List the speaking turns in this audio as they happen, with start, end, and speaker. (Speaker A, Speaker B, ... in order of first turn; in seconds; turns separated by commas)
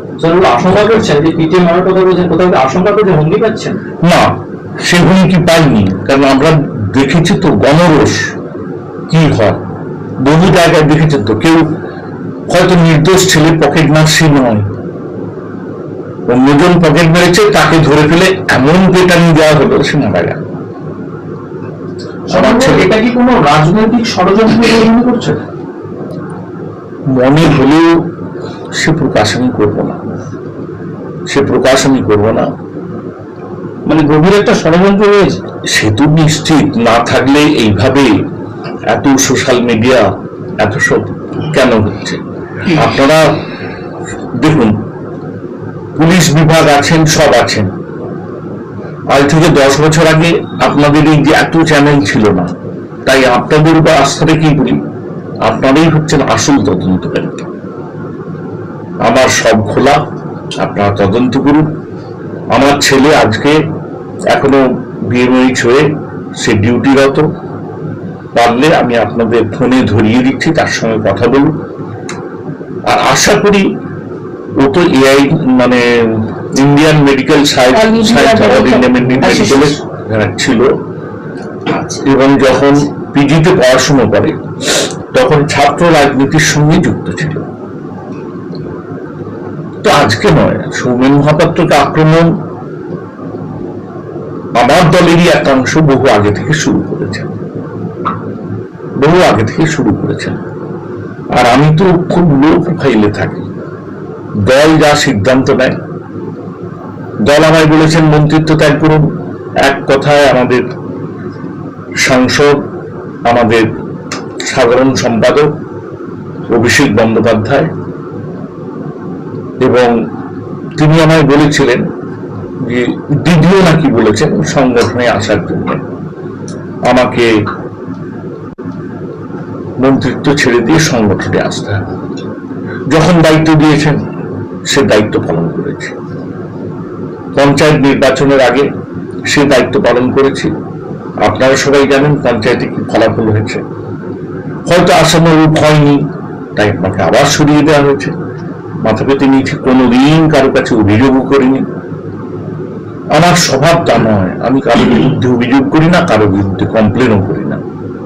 Speaker A: 0.2-3.8, Speaker B: 0.7-1.0, Speaker B: 4.0-8.3, Speaker B: 9.1-9.6, Speaker B: 10.2-11.7, Speaker B: 12.5-14.7, Speaker B: 16.3-20.4, Speaker C: 22.3-25.4, Speaker B: 22.3-22.9, Speaker B: 27.1-28.0, Speaker B: 28.8-30.1, Speaker B: 31.3-32.5, Speaker D: 33.9-35.4, Speaker B: 35.7-38.1, Speaker B: 38.9-40.1, Speaker B: 40.6-43.4, Speaker B: 44.4-44.8, Speaker B: 46.0-47.7, Speaker B: 49.1-52.5, Speaker B: 53.1-54.8, Speaker B: 55.4-57.4, Speaker B: 59.0-60.0, Speaker B: 60.6-61.7, Speaker B: 62.5-63.6, Speaker B: 64.3-67.3, Speaker B: 68.3-71.6, Speaker B: 72.9-73.7, Speaker B: 74.6-80.7, Speaker D: 77.7-79.8, Speaker B: 82.0-87.5, Speaker B: 89.8-92.3, Speaker B: 94.6-97.3, Speaker B: 99.0-100.4, Speaker B: 101.4-103.5, Speaker B: 104.5-105.8, Speaker B: 107.2-110.7, Speaker B: 112.0-112.6, Speaker B: 113.3-113.7, Speaker B: 114.5-115.5, Speaker B: 116.5-117.7, Speaker B: 119.6-120.0, Speaker B: 120.8-121.9, Speaker B: 122.6-125.8, Speaker B: 126.9-127.5, Speaker B: 129.8-131.8, Speaker B: 132.9-134.0, Speaker B: 134.7-135.9, Speaker B: 137.3-138.7, Speaker B: 139.3-140.5, Speaker B: 141.2-143.6, Speaker B: 144.7-148.2, Speaker B: 148.8-151.7, Speaker B: 153.1-157.6